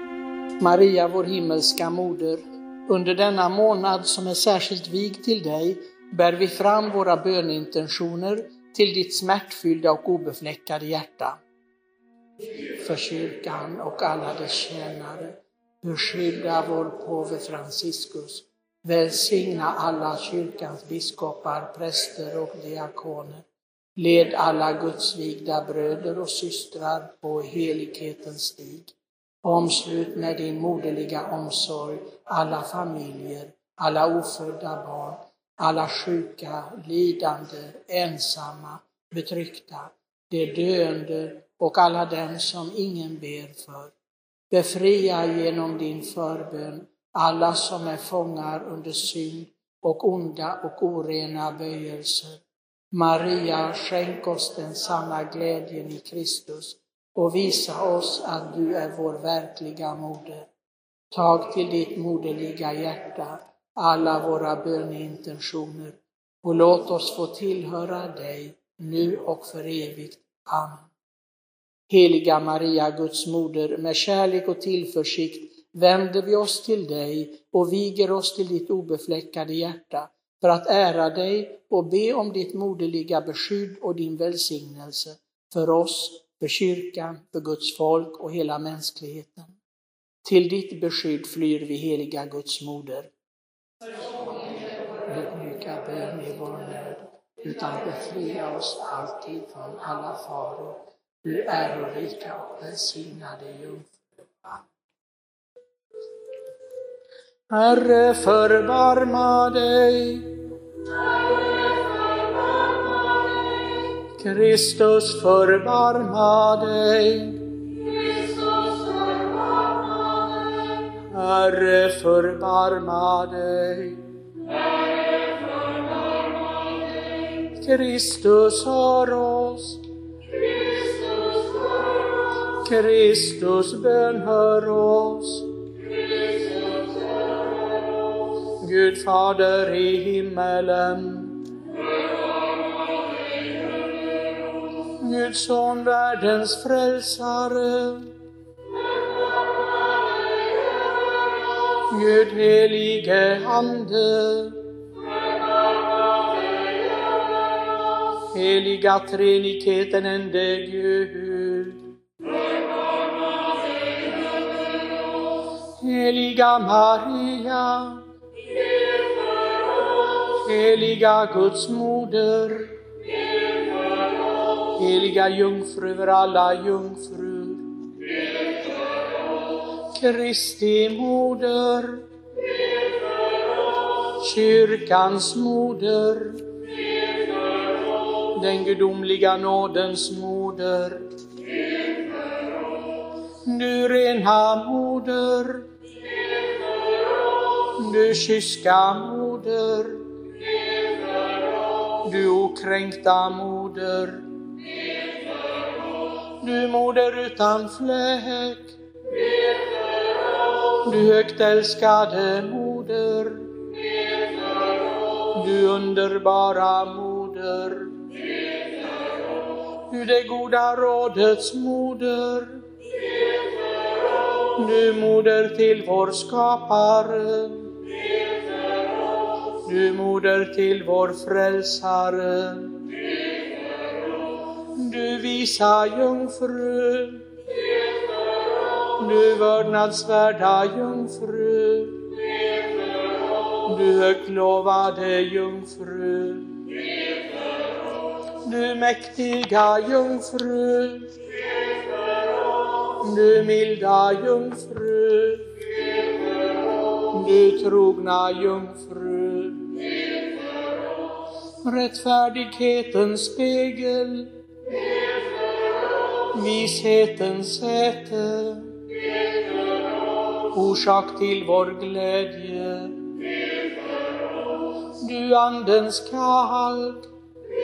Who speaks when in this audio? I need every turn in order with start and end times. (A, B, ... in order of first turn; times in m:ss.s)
0:00.6-0:11.4 A
0:12.8-0:23.4 A
0:24.0-0:28.9 A
0:29.4-0:43.9 A
0:44.5-0:52.4 A
0:52.9-1:00.5 A
1:01.1-1:10.9 A
1:11.9-1:29.6 A
1:30.2-1:33.1 A
1:34.3-1:43.9 A
1:47.5-1:50.4 A
1:54.2-1:57.4 A
1:58.6-1:59.0 A
2:01.1-2:04.0 A
2:07.4-2:09.8 A
2:12.6-2:15.5 A
2:18.5-2:21.4 A
2:25.0-2:28.1 A
2:31.9-2:34.6 A
2:38.3-2:41.8 A
2:45.8-2:48.0 A
2:50.3-2:52.8 A
2:54.8-2:57.7 A
2:59.9-3:02.0 A
3:04.2-3:06.4 A
3:08.3-3:11.0 A
3:13.4-3:15.7 A
3:17.6-3:20.0 A
3:22.0-3:24.2 A
3:26.4-3:28.8 A
3:30.8-3:33.5 A
3:35.3-3:38.0 A
3:39.9-3:42.6 A
3:44.6-3:47.7 A
3:49.6-3:52.8 A
3:54.7-3:57.3 A
3:59.0-4:02.0 A
4:03.6-4:06.6 A
4:08.4-4:11.1 A
4:13.0-4:15.5 A
4:17.0-4:19.7 A
4:21.6-4:24.3 A
4:26.3-4:28.8 A
4:30.5-4:33.0 A
4:35.0-4:37.1 A